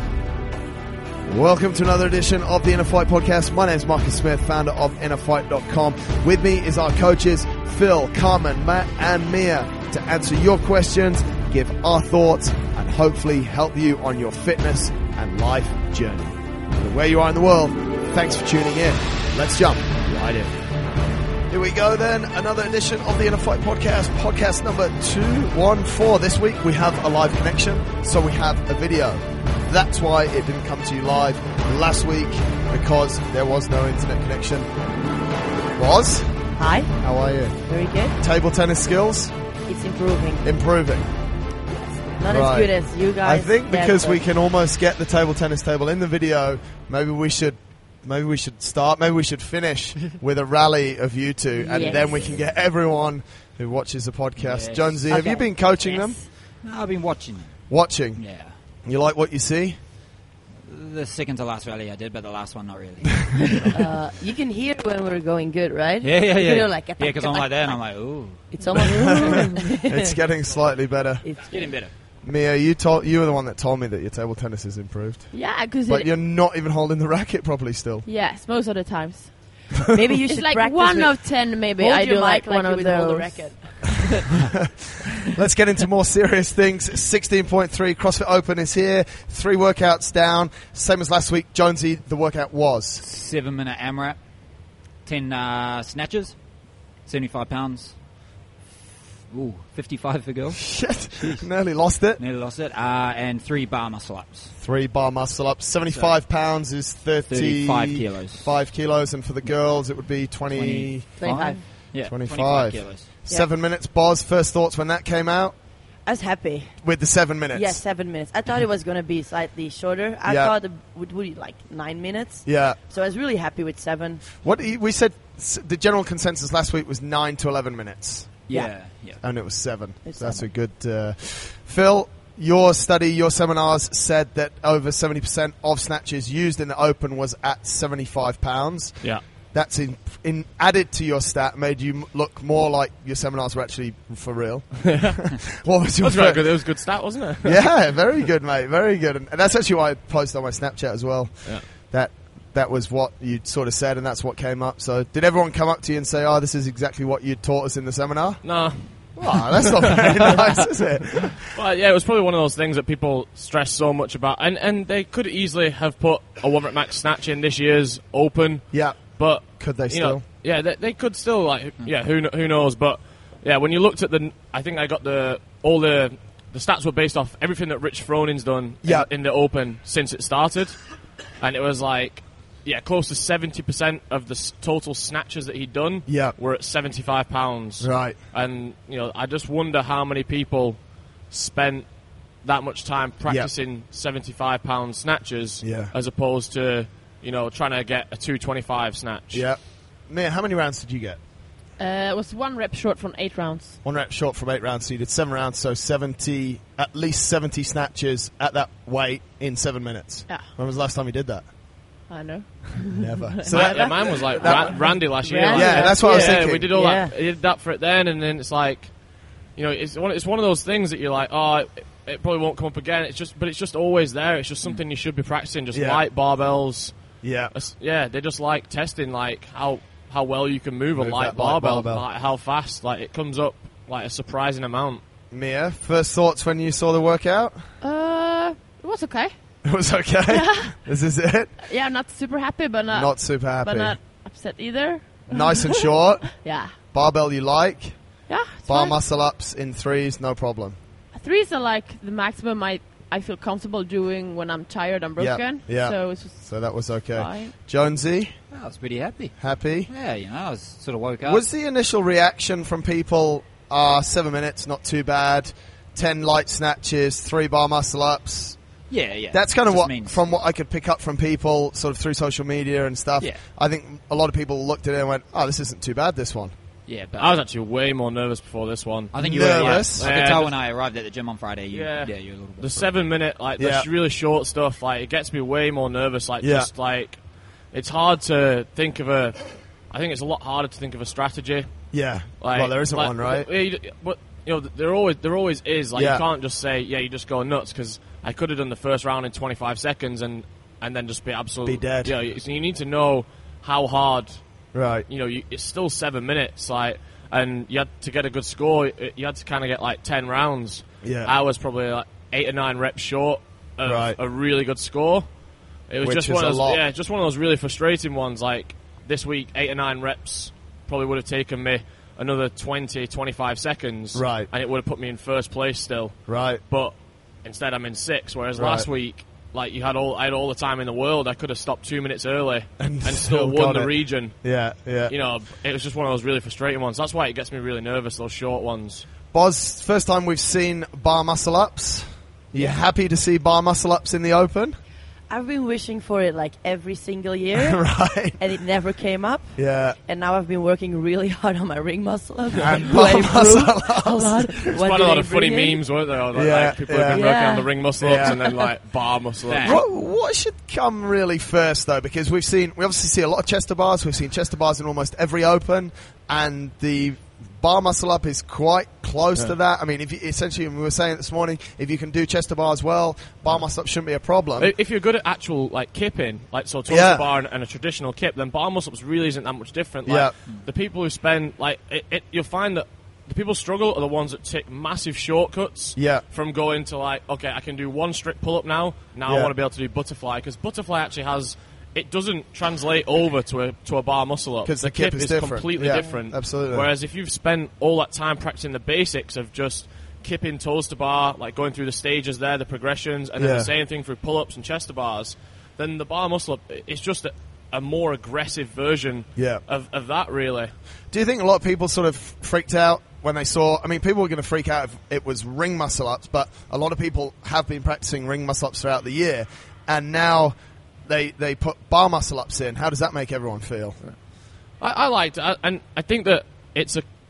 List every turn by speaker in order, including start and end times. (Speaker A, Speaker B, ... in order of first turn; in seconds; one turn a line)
Speaker A: 1.2-20.5
Speaker A: 21.5-34.7
Speaker A: 35.8-36.4
Speaker B: 36.6-36.9
Speaker A: 37.0-37.6
Speaker B: 37.6-38.2
Speaker A: 38.2-39.3
Speaker B: 39.7-40.4
Speaker A: 40.4-41.1
Speaker B: 41.7-44.2
Speaker A: 42.3-56.2
Speaker C: 51.6-52.0
Speaker B: 51.7-52.0
Speaker D: 51.7-52.6
Speaker D: 54.4-55.2
Speaker B: 55.1-56.2
Speaker D: 56.6-57.6
Speaker A: 57.7-58.2
Speaker D: 58.2-58.5
Speaker A: 58.8-59.8
Speaker D: 60.6-63.7
Speaker B: 63.7-67.8
Speaker D: 66.0-68.9
Speaker B: 68.5-70.2
Speaker C: 68.9-69.5
Speaker A: 69.8-78.0
Speaker B: 71.2-71.7
Speaker D: 71.5-71.9
Speaker C: 75.3-76.1
Speaker C: 78.0-79.7
Speaker B: 79.9-84.2
Speaker C: 80.3-84.0
Speaker A: 85.2-93.0
Speaker D: 93.0-94.2
Speaker D: 95.0-96.3
Speaker D: 97.0-97.9
Speaker D: 99.3-101.5
Speaker A: 100.6-102.2
Speaker D: 102.2-104.5
Speaker A: 104.6-111.1
Speaker D: 105.9-106.1
Speaker D: 107.3-108.5
Speaker D: 110.5-113.1
Speaker B: 111.2-111.6
Speaker A: 111.9-115.5
Speaker B: 116.0-116.7
Speaker A: 116.8-117.8
Speaker B: 117.5-124.2
Speaker A: 120.2-120.5
Speaker A: 122.5-122.8
Speaker A: 124.4-128.4
Speaker D: 128.5-129.2
Speaker A: 129.2-146.7
Speaker B: 130.0-130.4
Speaker E: 146.0-147.8
Speaker A: 147.4-161.6
Speaker E: 158.4-180.8
Speaker A: 168.7-170.2
Speaker A: 178.8-179.1
Speaker E: 181.4-191.9
Speaker A: 186.1-186.3
Speaker A: 187.8-188.2
Speaker E: 192.4-199.5
Speaker A: 195.6-195.9
Speaker A: 199.3-201.2
Speaker C: 201.8-203.8
Speaker A: 203.8-211.5
Speaker C: 210.3-210.5
Speaker C: 212.1-216.3
Speaker A: 212.8-216.7
Speaker E: 213.5-218.9
Speaker B: 216.1-217.1
Speaker E: 219.6-227.0
Speaker A: 225.7-226.0
Speaker A: 227.2-227.5
Speaker E: 227.5-235.0
Speaker A: 230.9-232.0
Speaker A: 235.3-237.7
Speaker C: 237.8-239.3
Speaker A: 239.6-241.6
Speaker C: 240.3-240.8
Speaker C: 241.6-246.7
Speaker A: 242.9-244.0
Speaker A: 245.3-248.0
Speaker C: 248.3-248.9
Speaker A: 248.7-250.8
Speaker C: 251.1-256.5
Speaker A: 255.2-258.3
Speaker C: 257.1-257.5
Speaker D: 258.5-259.4
Speaker A: 259.4-259.9
Speaker D: 259.9-261.4
Speaker A: 261.2-268.6
Speaker D: 268.9-270.2
Speaker A: 269.3-276.5
Speaker D: 276.9-277.3
Speaker E: 277.2-280.5
Speaker D: 279.1-282.9
Speaker A: 279.2-280.1
Speaker E: 281.7-287.2
Speaker A: 283.6-283.9
Speaker A: 286.4-286.7
Speaker E: 287.7-291.7
Speaker A: 291.9-293.5
Speaker E: 292.4-304.4
Speaker A: 295.9-296.2
Speaker A: 301.6-302.1
Speaker A: 304.7-305.1
Speaker E: 305.1-315.3
Speaker A: 311.0-311.3
Speaker A: 313.8-314.2
Speaker E: 315.9-334.5
Speaker A: 316.0-316.8
Speaker A: 324.1-324.5
Speaker A: 326.3-326.6
Speaker A: 328.6-328.9
Speaker A: 332.8-333.9
Speaker A: 334.4-335.1
Speaker E: 335.1-339.1
Speaker A: 339.3-344.8
Speaker B: 345.3-355.8
Speaker A: 347.5-348.4
Speaker A: 349.6-350.0
Speaker A: 352.6-354.8
Speaker E: 354.7-359.8
Speaker A: 356.3-357.3
Speaker B: 357.1-358.7
Speaker A: 358.0-358.5
Speaker D: 359.4-359.8
Speaker A: 359.6-374.7
Speaker E: 374.6-410.7
Speaker A: 376.9-377.2
Speaker A: 380.0-380.3
Speaker A: 385.9-386.2
Speaker A: 389.2-389.5
Speaker A: 394.6-396.9
Speaker A: 403.4-403.7
Speaker A: 409.4-409.6
Speaker A: 411.1-424.0
Speaker E: 424.8-427.0